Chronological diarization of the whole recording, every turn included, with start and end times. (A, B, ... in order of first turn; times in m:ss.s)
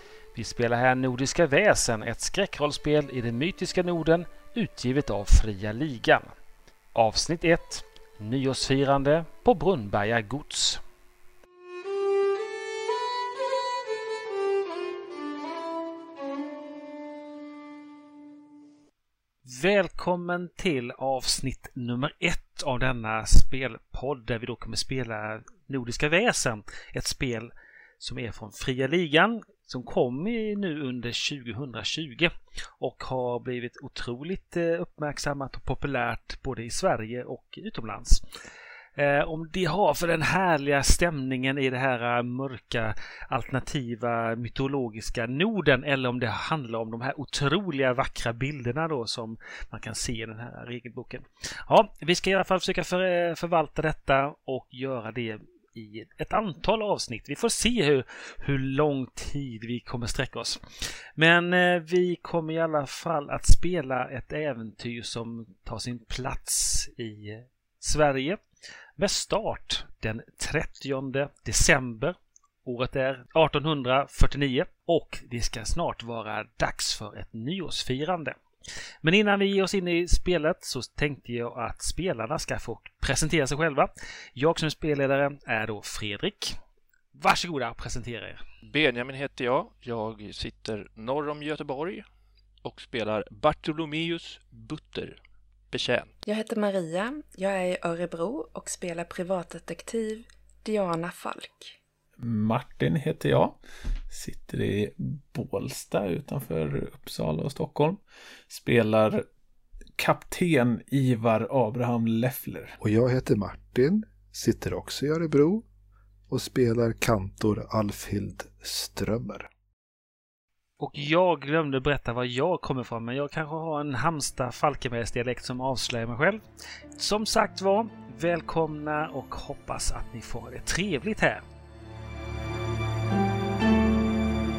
0:00.3-0:06.3 A
0:07.0-0:10.8 A
0:19.5-0:38.2 A
0:39.0-1:08.4 A
1:09.0-1:18.4 A
1:19.0-1:26.6 A
1:27.2-1:28.4 A
1:28.7-1:32.0 B
1:32.6-1:35.2 B
1:35.7-1:36.1 B
1:36.3-1:41.7 C
1:42.2-1:43.6 D
1:44.1-1:49.3 D
1:50.0-1:52.8 D
1:52.8-1:55.7 E
1:56.3-1:59.5 E
2:00.8-2:06.4 A
2:07.0-2:11.4 A